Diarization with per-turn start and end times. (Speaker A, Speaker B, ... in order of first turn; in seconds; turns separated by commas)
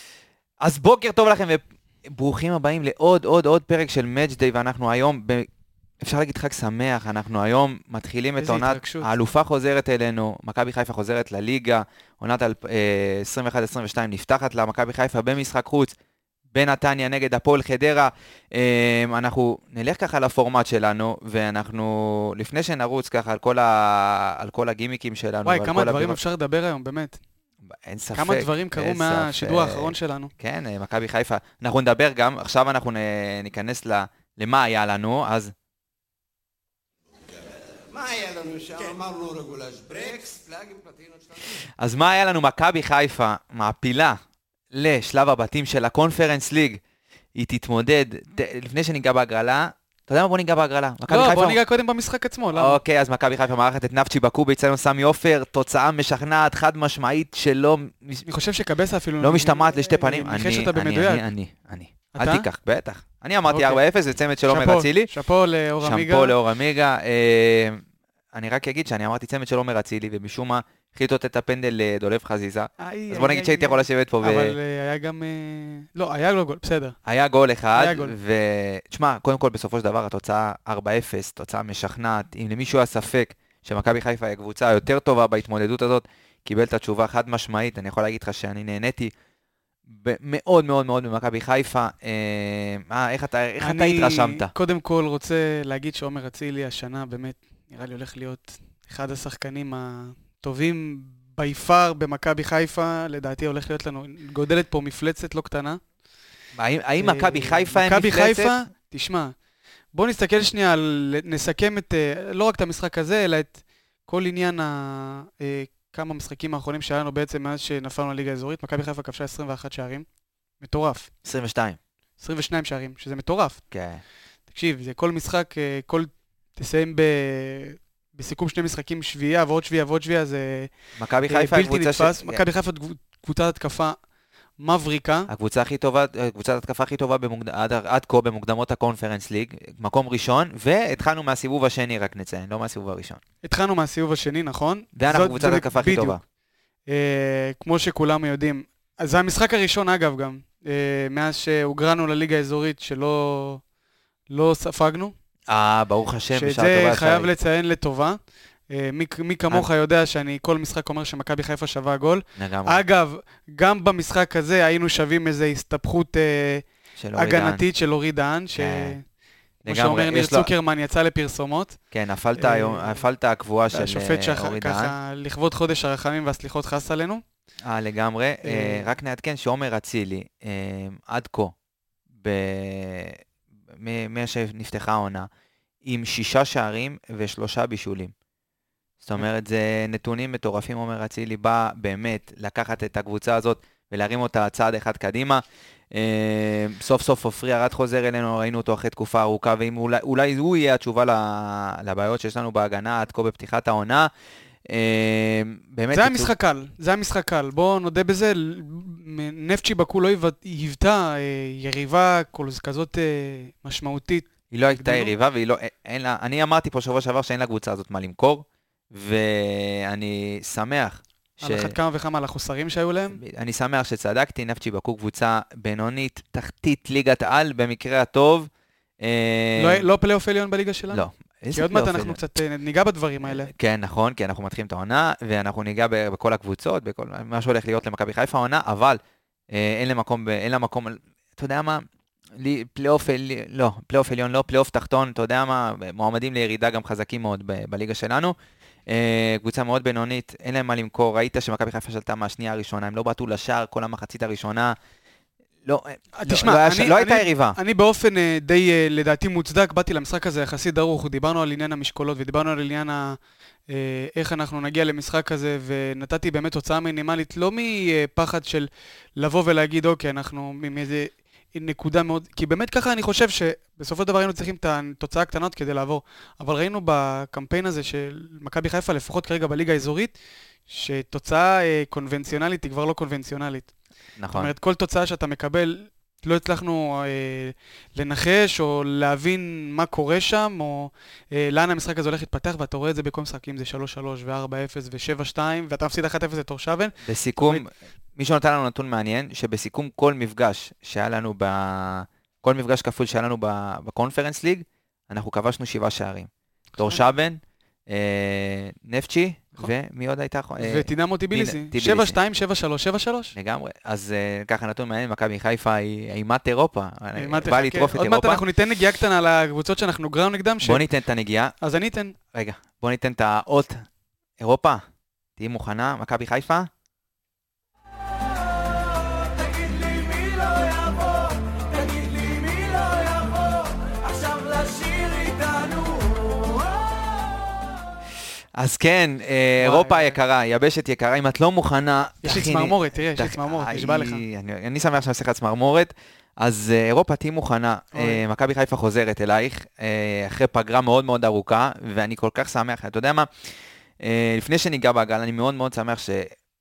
Speaker A: 0.6-5.5, Speaker A: 6.0-15.9, Speaker B: 8.4-9.1, Speaker A: 16.5-26.2, Speaker B: 25.4-27.2, Speaker A: 27.6-35.5, Speaker B: 28.1-30.3, Speaker C: 37.5-41.6, Speaker A: 41.8-44.2, Speaker A: 44.7-46.8, Speaker A: 47.4-51.6, Speaker B: 51.1-52.8, Speaker A: 52.5-58.3, Speaker B: 58.2-61.3, Speaker A: 59.2-65.1, Speaker B: 62.1-62.5, Speaker B: 63.5-63.8, Speaker B: 64.5-66.3, Speaker A: 65.8-67.8, Speaker A: 68.3-74.5, Speaker B: 72.8-77.0, Speaker A: 77.0-89.1, Speaker B: 77.7-78.1, Speaker A: 89.9-94.5, Speaker B: 93.6-105.8, Speaker A: 106.5-108.5, Speaker B: 107.0-109.3, Speaker B: 109.9-120.0, Speaker B: 120.6-121.1, Speaker A: 121.2-121.8, Speaker B: 122.2-123.6, Speaker A: 123.7-124.0, Speaker B: 124.5-130.7, Speaker A: 131.0-132.4, Speaker B: 131.3-134.0, Speaker B: 134.6-135.3, Speaker A: 135.3-143.2, Speaker B: 143.4-146.2, Speaker A: 144.9-146.2, Speaker B: 146.9-153.6, Speaker B: 154.3-155.1, Speaker A: 155.5-157.3, Speaker B: 156.3-166.7, Speaker A: 162.4-162.8, Speaker A: 167.0-167.6, Speaker B: 167.2-169.0, Speaker A: 168.5-169.0, Speaker A: 169.6-170.5, Speaker B: 169.6-171.8, Speaker A: 171.9-174.9, Speaker B: 172.3-173.0, Speaker B: 173.7-177.2, Speaker A: 177.7-181.5, Speaker B: 178.4-178.9, Speaker A: 182.2-183.2, Speaker A: 183.7-185.3, Speaker A: 185.8-188.1, Speaker A: 189.0-204.1, Speaker A: 204.7-206.3, Speaker B: 205.9-215.1, Speaker A: 214.5-221.7, Speaker B: 221.4-223.2, Speaker A: 223.1-228.5, Speaker A: 229.0-229.8, Speaker B: 229.6-233.5, Speaker A: 230.9-232.2, Speaker A: 233.2-239.0, Speaker A: 239.5-241.8, Speaker A: 242.4-248.3, Speaker A: 248.9-254.8, Speaker A: 255.7-257.6, Speaker B: 256.2-280.1, Speaker B: 280.7-283.7, Speaker A: 284.2-284.5, Speaker B: 284.3-297.6, Speaker A: 297.0-312.2, Speaker B: 310.6-313.3, Speaker A: 313.3-318.4, Speaker B: 317.1-320.8, Speaker A: 320.6-321.5, Speaker B: 321.6-322.2, Speaker A: 322.3-323.8, Speaker A: 324.4-324.8, Speaker A: 325.4-326.7, Speaker C: 330.1-336.4, Speaker A: 338.6-356.3, Speaker B: 339.6-340.2, Speaker B: 342.2-344.2, Speaker B: 347.9-348.2